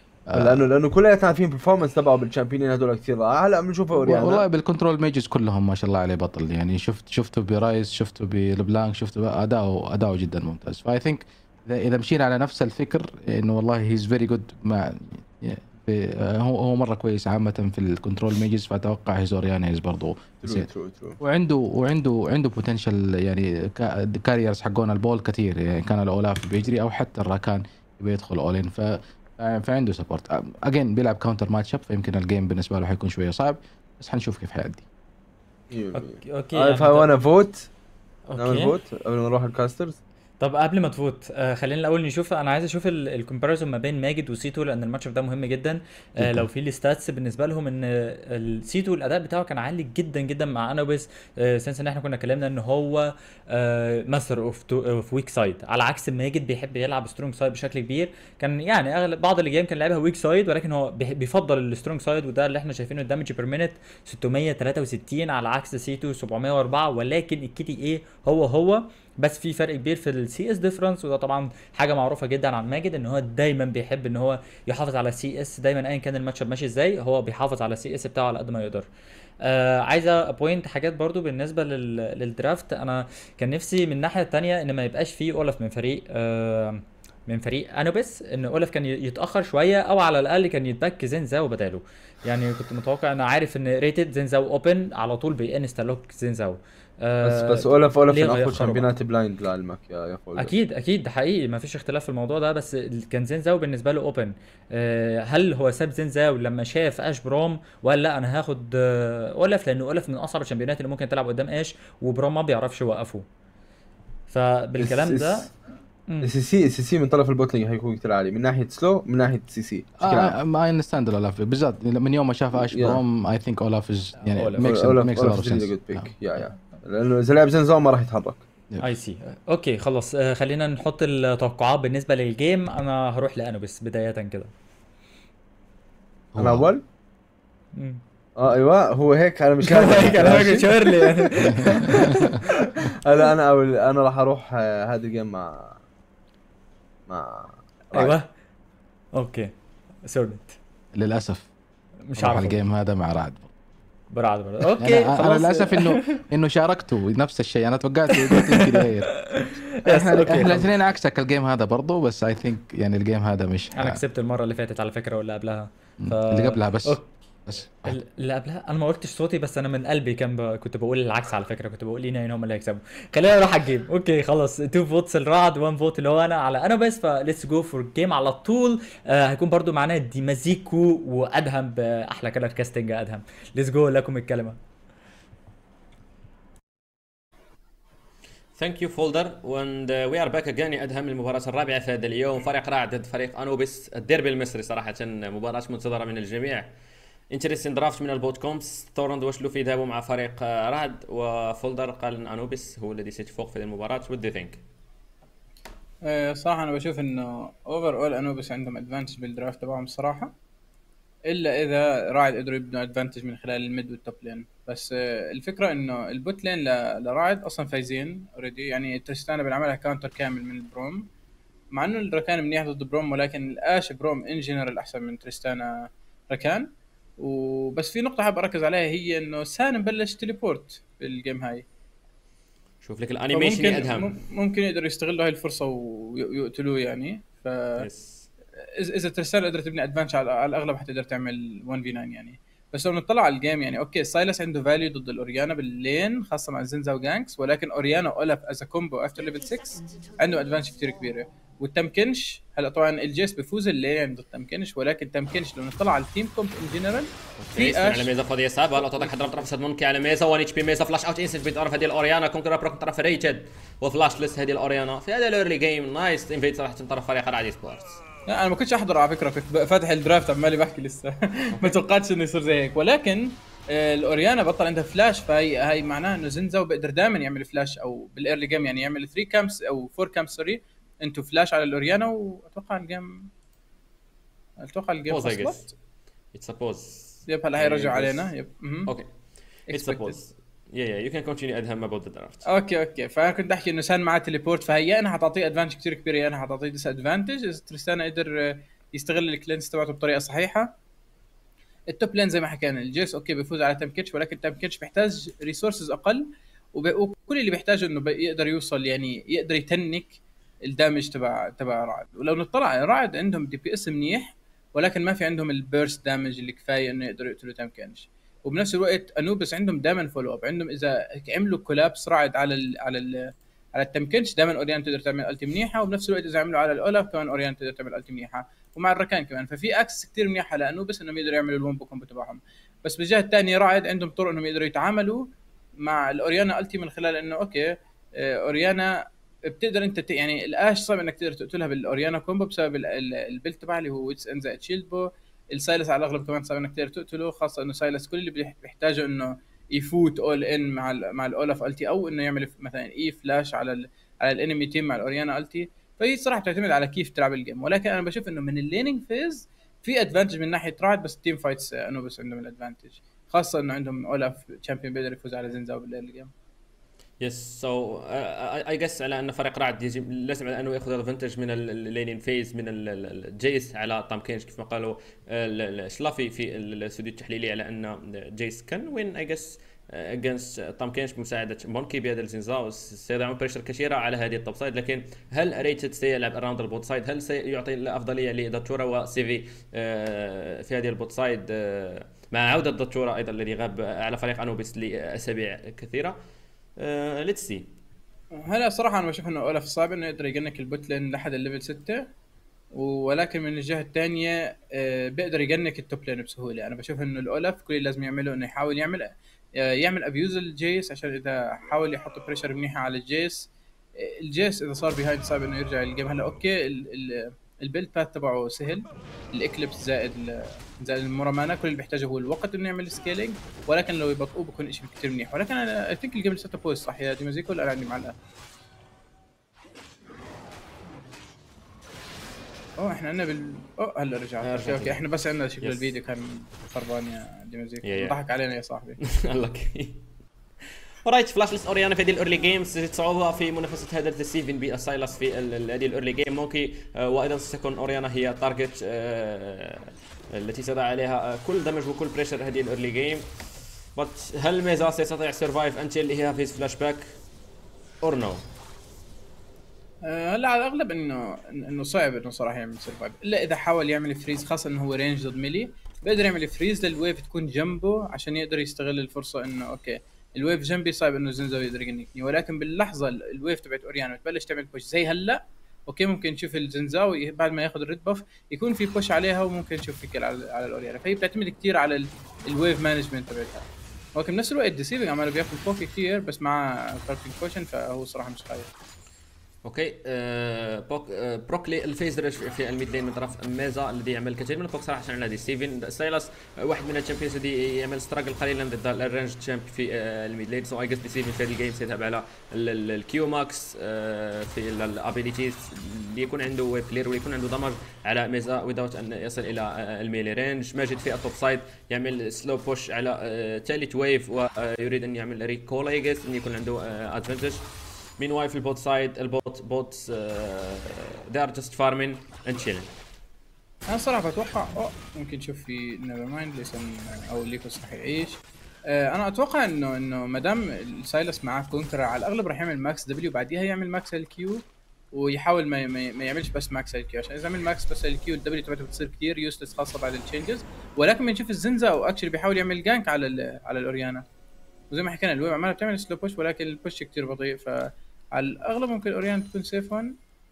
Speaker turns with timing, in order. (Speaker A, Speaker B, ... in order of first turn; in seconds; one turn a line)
Speaker A: 0.3-0.6
Speaker B: 0.3-4.4
Speaker A: 3.9-20.7
Speaker B: 20.4-21.2
Speaker A: 21.2-34.8
Speaker B: 35.7-37.7
Speaker C: 35.9-37.1
Speaker C: 38.3-38.7
Speaker B: 38.4-40.0
Speaker C: 40.4-78.9
Speaker A: 46.2-46.5
Speaker C: 79.4-98.9
Speaker B: 97.2-100.5
Speaker C: 100.4-113.2
Speaker C: 114.3-115.5
Speaker B: 114.8-115.5
Speaker B: 116.2-120.3
Speaker A: 120.0-126.1
Speaker B: 122.5-123.0
Speaker C: 124.3-124.7
Speaker B: 124.6-128.4
Speaker C: 128.8-134.5
Speaker A: 136.3-136.7
Speaker B: 136.3-136.8
Speaker C: 137.8-138.0
Speaker B: 138.4-145.8
Speaker C: 139.7-142.5
Speaker A: 141.5-142.3
Speaker B: 147.1-148.2
Speaker C: 147.9-148.3
Speaker C: 149.2-149.5
Speaker C: 150.0-150.5
Speaker A: 150.9-151.5
Speaker C: 152.1-152.6
Speaker A: 152.2-153.5
Speaker C: 154.1-156.2
Speaker A: 154.8-164.0
Speaker C: 158.3-160.7
Speaker C: 163.8-167.0
Speaker A: 166.0-167.9
Speaker C: 167.8-184.6
Speaker D: 188.6-196.7
Speaker D: 197.3-204.6
Speaker E: 206.0-210.3
Speaker E: 211.2-221.1
Speaker E: 221.7-231.6
Speaker D: 232.8-234.2
Speaker E: 233.3-237.9
Speaker D: 237.8-238.3
Speaker E: 238.8-258.1
Speaker D: 257.4-268.0
Speaker E: 258.8-259.4
Speaker E: 268.3-283.3
Speaker E: 284.6-285.7
Speaker D: 285.1-285.7
Speaker D: 286.3-288.3
Speaker E: 287.3-288.9
Speaker D: 289.7-292.4
Speaker E: 289.7-290.2
Speaker E: 292.4-300.7
Speaker E: 301.9-366.3
Speaker D: 367.2-396.2
Speaker D: 396.8-397.7
Speaker E: 398.3-402.1
Speaker E: 402.7-428.1
Speaker E: 432.8-439.0
Speaker D: 434.4-435.0
Speaker D: 435.6-435.9
Speaker D: 437.8-438.1
Speaker D: 439.0-440.1
Speaker D: 441.0-453.3
Speaker D: 453.9-457.1
Speaker D: 458.0-458.4
Speaker E: 460.0-488.7
Speaker D: 489.6-522.9
Speaker E: 523.9-544.2
Speaker E: 544.9-550.1